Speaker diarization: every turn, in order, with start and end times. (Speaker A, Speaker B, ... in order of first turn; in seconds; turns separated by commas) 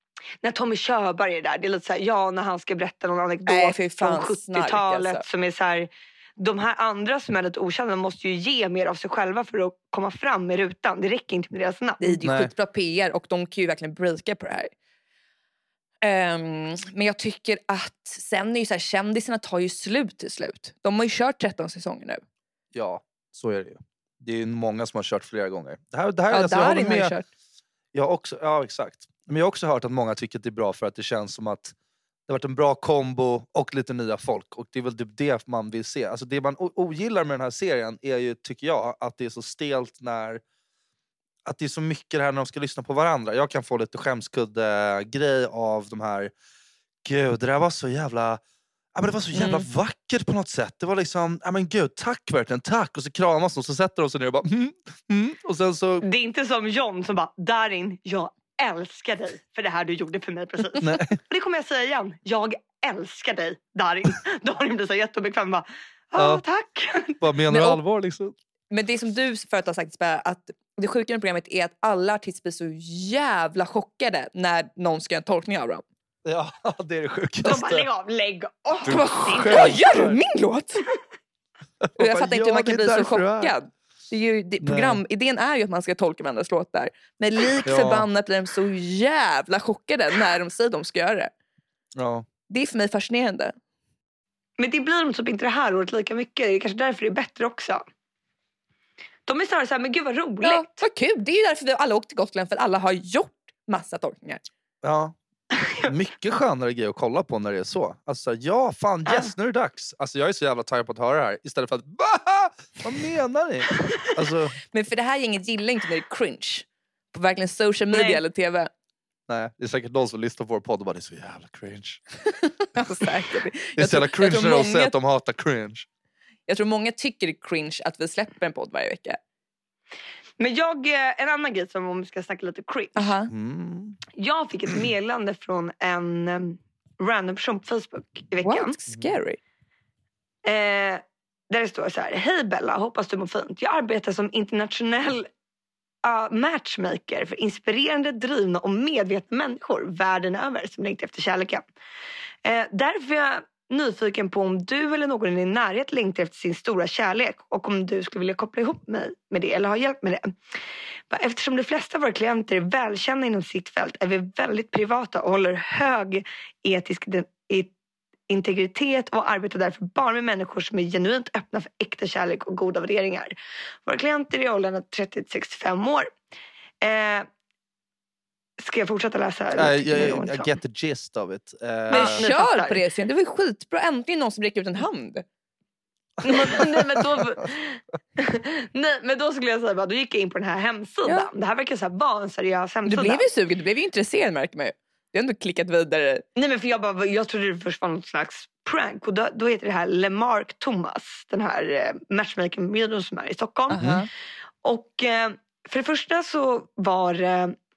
Speaker A: 0.4-12.2, Speaker B: 3.5-5.2, Speaker B: 12.0-14.7, Speaker C: 12.2-12.5, Speaker B: 16.0-22.2, Speaker C: 22.7-27.1, Speaker B: 26.3-27.2, Speaker C: 27.9-31.7, Speaker C: 32.3-40.4, Speaker C: 41.4-46.3, Speaker C: 47.0-48.4, Speaker C: 48.9-56.0, Speaker B: 49.4-49.6, Speaker A: 56.0-67.2, Speaker C: 60.8-61.2, Speaker C: 66.2-66.4, Speaker C: 67.2-68.3, Speaker B: 67.5-67.8, Speaker B: 68.7-75.8, Speaker C: 76.2-77.9, Speaker A: 77.4-79.8, Speaker C: 78.8-80.2, Speaker B: 78.9-80.8, Speaker C: 81.8-83.5, Speaker B: 82.0-91.3, Speaker C: 84.6-85.0, Speaker C: 87.6-88.1, Speaker C: 92.0-92.3, Speaker B: 92.5-93.5, Speaker A: 94.6-97.8, Speaker A: 99.3-100.8, Speaker B: 100.4-104.4, Speaker C: 104.8-105.1, Speaker C: 105.8-114.5, Speaker B: 114.7-118.7, Speaker A: 117.9-118.2, Speaker C: 119.3-122.0, Speaker B: 122.6-124.9, Speaker C: 123.8-125.9, Speaker B: 126.5-129.2, Speaker A: 130.4-133.1, Speaker B: 132.9-133.3, Speaker C: 133.3-134.0, Speaker A: 134.1-138.7, Speaker B: 138.4-139.4, Speaker A: 140.4-145.3, Speaker A: 146.0-151.6, Speaker A: 152.4-160.3, Speaker A: 161.1-167.7, Speaker A: 168.3-173.3, Speaker A: 173.8-176.1, Speaker A: 176.8-177.3, Speaker A: 178.6-180.5, Speaker C: 179.5-182.2, Speaker A: 181.9-182.8, Speaker B: 181.9-185.2, Speaker A: 186.2-193.2, Speaker B: 192.9-196.2, Speaker A: 196.3-203.9, Speaker B: 203.7-204.1, Speaker C: 203.8-204.1, Speaker A: 204.6-207.6